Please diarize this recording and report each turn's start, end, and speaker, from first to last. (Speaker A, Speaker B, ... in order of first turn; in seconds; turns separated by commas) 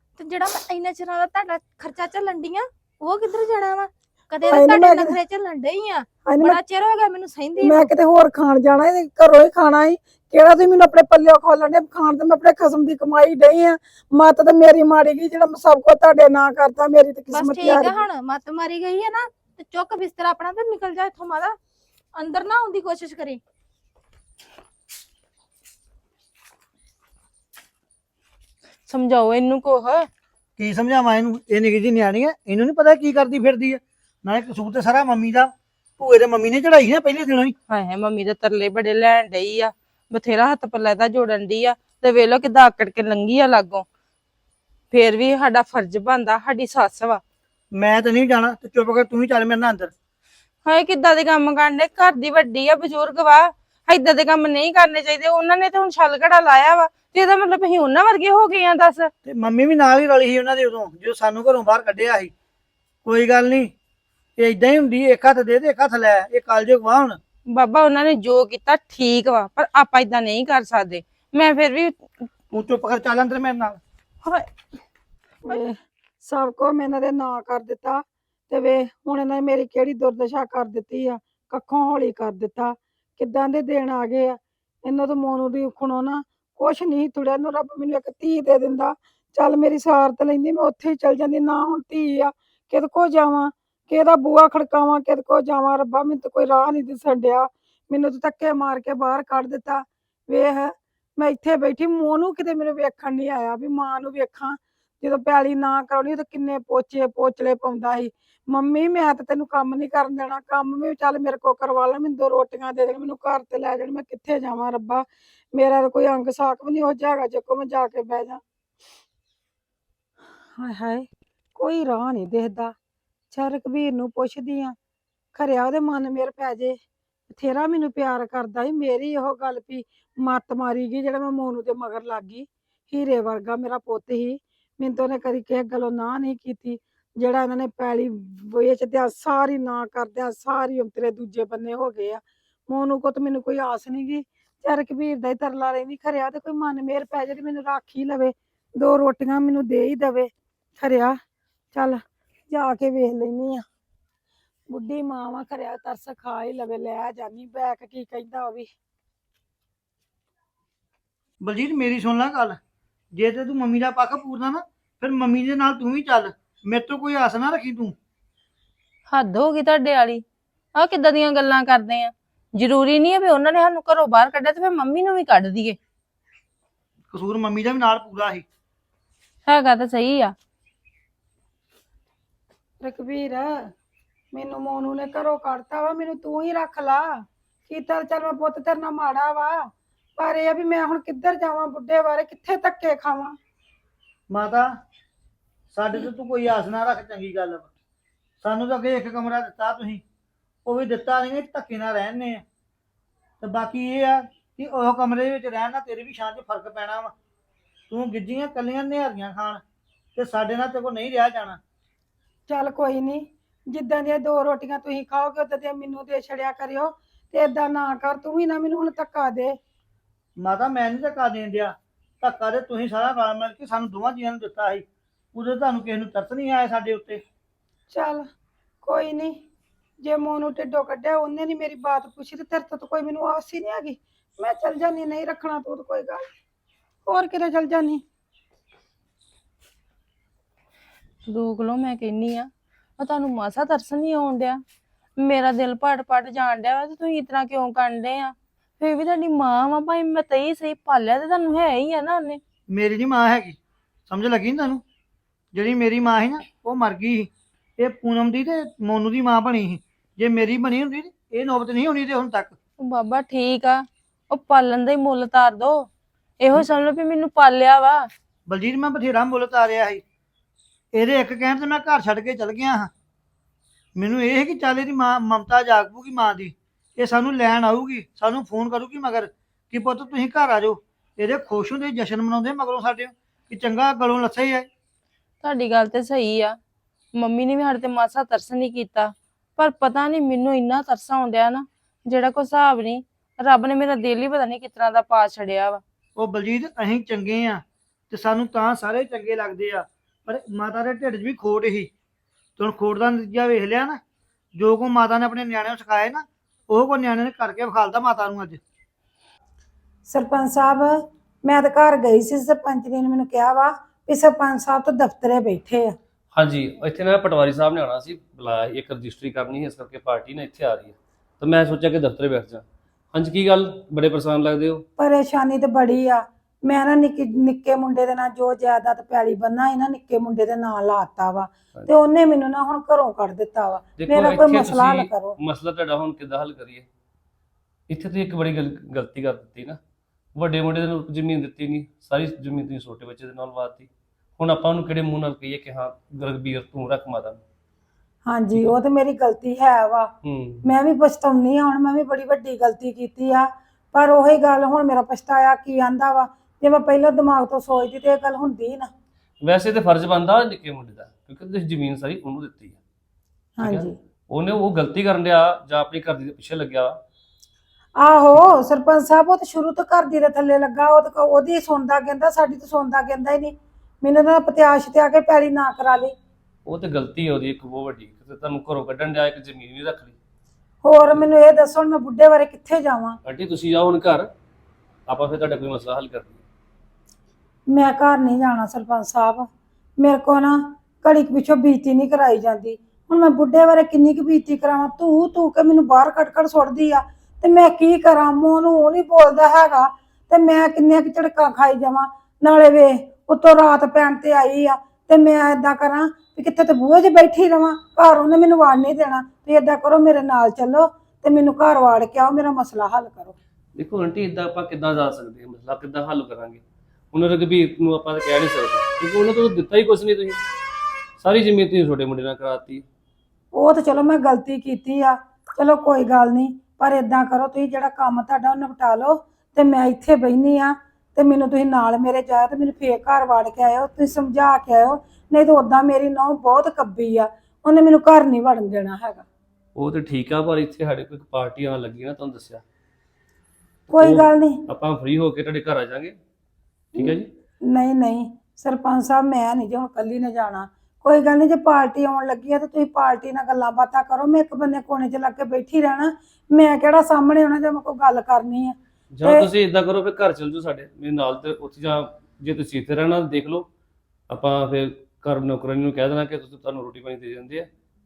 Speaker A: 0.2-7.9, Speaker B: 4.5-5.2, Speaker B: 6.2-6.6, Speaker B: 7.6-18.0, Speaker A: 17.3-21.6, Speaker A: 22.1-23.4, Speaker C: 28.9-30.1, Speaker D: 30.6-37.5, Speaker C: 37.7-43.9, Speaker C: 44.9-47.2, Speaker D: 47.7-49.9, Speaker C: 50.7-59.1, Speaker D: 59.2-62.3, Speaker D: 63.0-63.7, Speaker D: 64.4-67.2, Speaker C: 67.5-72.0, Speaker D: 72.5-73.8, Speaker B: 75.5-118.4, Speaker B: 120.6-122.8, Speaker B: 123.3-124.8, Speaker B: 125.3-126.8, Speaker B: 127.3-151.2, Speaker B: 151.7-153.7, Speaker B: 154.7-158.7, Speaker D: 161.4-162.6, Speaker D: 163.1-167.9, Speaker C: 169.1-170.2, Speaker C: 170.8-175.8, Speaker D: 177.1-178.4, Speaker C: 179.5-180.3, Speaker B: 182.8-183.7, Speaker B: 184.3-187.1, Speaker B: 187.7-189.6, Speaker B: 190.2-193.4, Speaker D: 194.3-194.7, Speaker D: 195.7-197.7, Speaker D: 198.4-200.0, Speaker D: 200.7-202.4, Speaker D: 203.4-207.1, Speaker D: 207.9-209.6, Speaker D: 210.2-211.6, Speaker B: 212.5-219.6, Speaker D: 220.4-227.2, Speaker B: 227.9-228.3, Speaker B: 228.8-229.4, Speaker B: 230.0-236.2, Speaker B: 237.1-238.0, Speaker C: 241.2-244.6, Speaker C: 245.2-252.4, Speaker D: 252.7-254.8, Speaker D: 255.5-262.5, Speaker C: 262.8-265.9, Speaker C: 266.4-268.1, Speaker D: 268.5-270.0, Speaker D: 270.9-272.9, Speaker D: 274.0-284.7, Speaker C: 285.4-286.6, Speaker C: 287.1-295.8, Speaker D: 296.2-301.9, Speaker D: 302.6-304.0, Speaker D: 304.6-308.6, Speaker B: 310.1-316.0, Speaker E: 316.3-324.9, Speaker B: 325.0-335.4, Speaker E: 334.0-336.9, Speaker E: 337.9-339.8, Speaker E: 340.4-347.4, Speaker B: 348.3-350.1, Speaker E: 350.2-350.7, Speaker B: 350.6-358.9, Speaker E: 359.4-362.8, Speaker B: 363.6-363.9, Speaker E: 363.6-367.0, Speaker B: 368.0-376.1, Speaker E: 368.3-368.6, Speaker E: 376.7-380.2, Speaker B: 380.8-383.2, Speaker E: 383.2-384.3, Speaker E: 385.1-386.4, Speaker B: 387.7-413.4, Speaker E: 413.8-420.4, Speaker E: 421.2-422.9, Speaker B: 423.5-439.2, Speaker E: 439.8-442.6, Speaker B: 443.9-444.7, Speaker E: 444.0-446.2, Speaker E: 446.9-447.3, Speaker B: 447.7-459.5, Speaker E: 459.1-463.7, Speaker E: 464.3-467.7